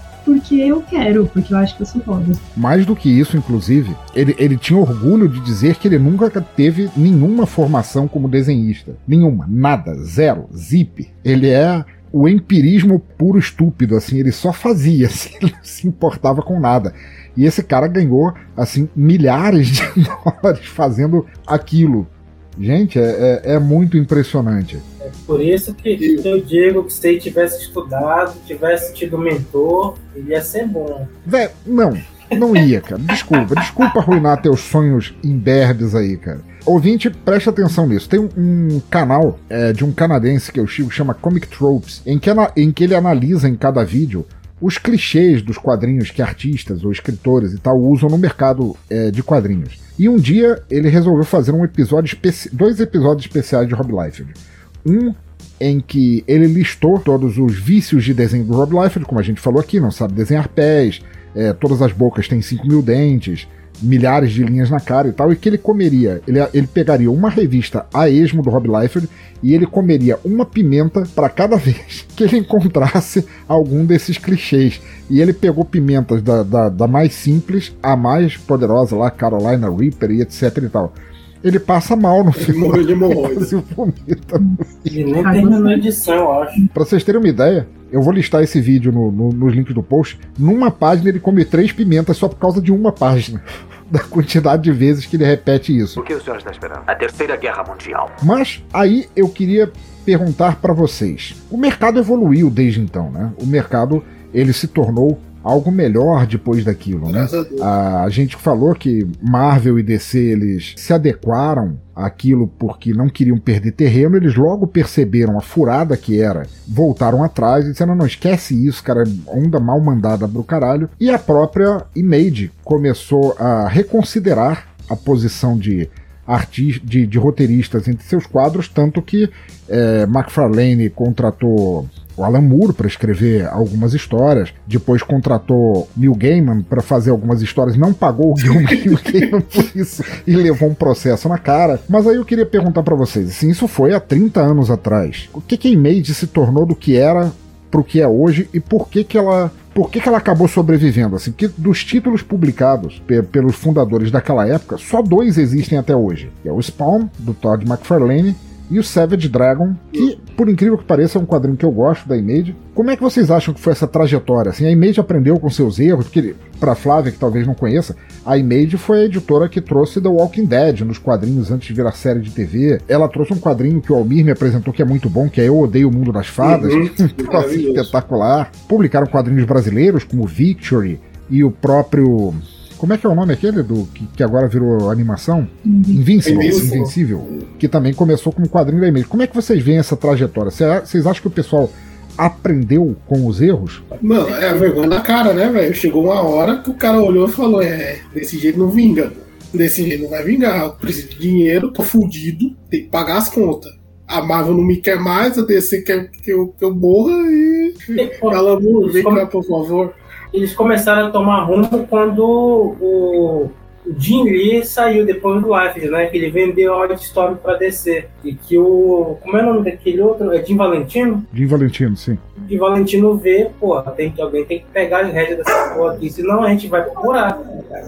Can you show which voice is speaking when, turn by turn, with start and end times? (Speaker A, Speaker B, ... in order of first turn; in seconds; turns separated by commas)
Speaker A: 0.2-2.4, Speaker B: 2.5-24.8, Speaker C: 25.0-31.1, Speaker D: 26.0-26.3, Speaker B: 31.2-85.0, Speaker C: 33.3-33.9, Speaker D: 82.3-83.5, Speaker A: 84.4-85.8, Speaker C: 84.9-86.6, Speaker B: 86.7-96.0, Speaker E: 96.0-98.1, Speaker B: 98.2-193.8, Speaker D: 107.1-107.7, Speaker D: 138.5-139.3, Speaker D: 176.4-177.9, Speaker A: 185.6-186.0, Speaker D: 186.2-186.9, Speaker C: 186.3-186.9, Speaker D: 194.0-209.9, Speaker C: 194.3-194.6, Speaker C: 207.9-209.2, Speaker C: 210.3-221.3, Speaker B: 221.3-222.2, Speaker C: 222.4-227.5